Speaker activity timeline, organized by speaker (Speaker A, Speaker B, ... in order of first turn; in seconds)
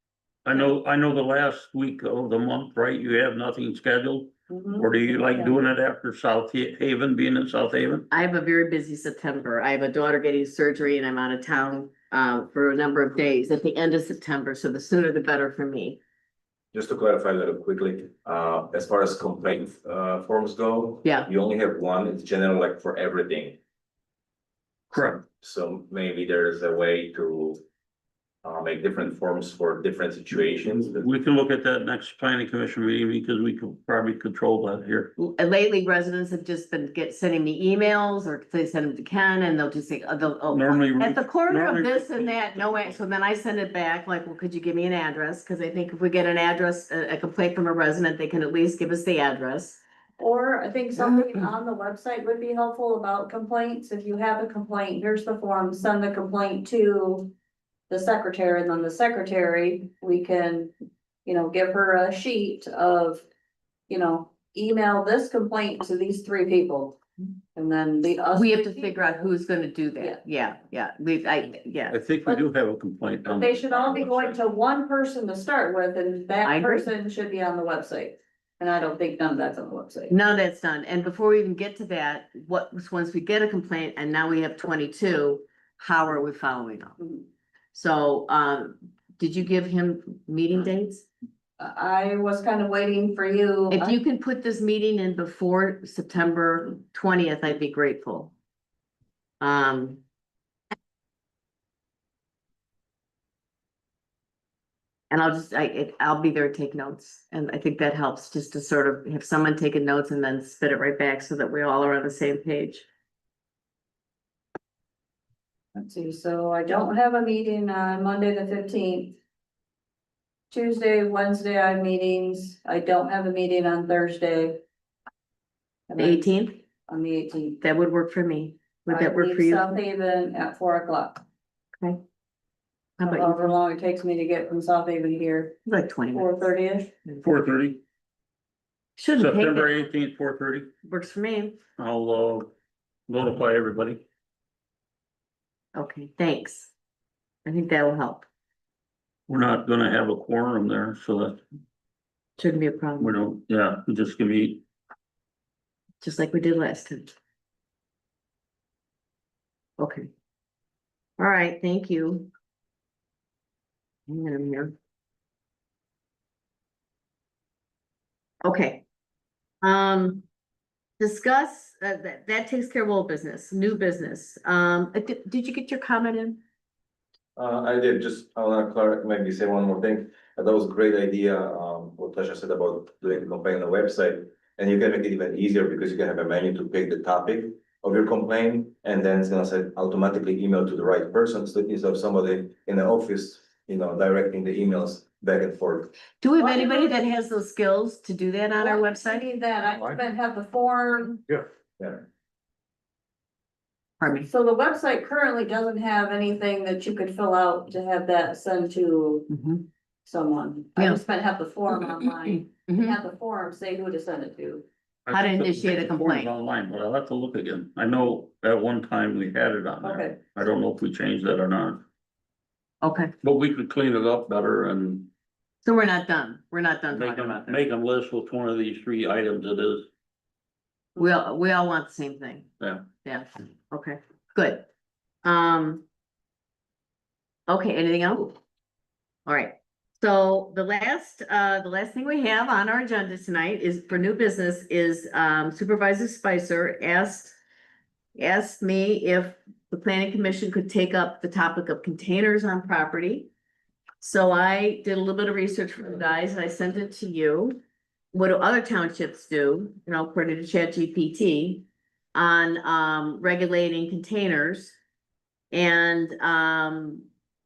Speaker A: 0.5-8.1, 24.9-25.2, 30.7-35.1, 40.5-43.0, 71.9-74.4, 137.2-137.8, 139.2-140.7, 141.8-142.5, 143.1-144.0, 149.3-151.4, 153.0-154.6, 215.1-221.8, 223.2-225.1, 226.9-229.9, 232.6-232.8
Speaker B: 4.5-5.6, 50.2-57.3, 57.9-60.7, 61.3-63.3, 63.9-67.0, 67.5-68.9, 73.3-80.1, 91.6-94.0, 115.8-119.2, 120.5-124.6, 125.9-126.3, 126.9-127.6, 128.9-131.2, 133.0-135.6, 136.1-136.9, 196.4-197.0, 198.6-201.2, 204.3-209.3, 210.1-214.7, 219.8-220.2
Speaker C: 8.1-16.0, 35.2-49.8, 68.3-72.0, 76.4-76.9, 80.1-87.0, 87.7-91.1, 93.7-98.3, 99.4-100.0, 105.1-112.9, 126.0-126.6, 127.6-129.7, 133.0-133.4, 135.7-136.4, 139.0-139.9, 140.8-141.6, 145.8-146.7, 147.4-148.3, 152.4-153.2, 156.0-157.2, 159.8-160.1, 161.2-162.3, 164.1-164.7, 168.4-168.8, 169.6-170.2, 171.0-176.4, 196.2-199.2, 204.0-204.3, 209.3-209.7, 210.8-211.0, 211.7-213.0, 215.1-216.3, 222.8-223.1, 225.6-227.6, 231.0-234.7, 235.2-235.8, 237.5-238.4, 239.3-247.4, 248.2-253.3, 254.0-257.6, 258.1-264.8, 265.5-267.1
Speaker D: 16.7-23.6, 25.2-27.6, 28.4-31.1, 177.4-196.0, 201.8-202.1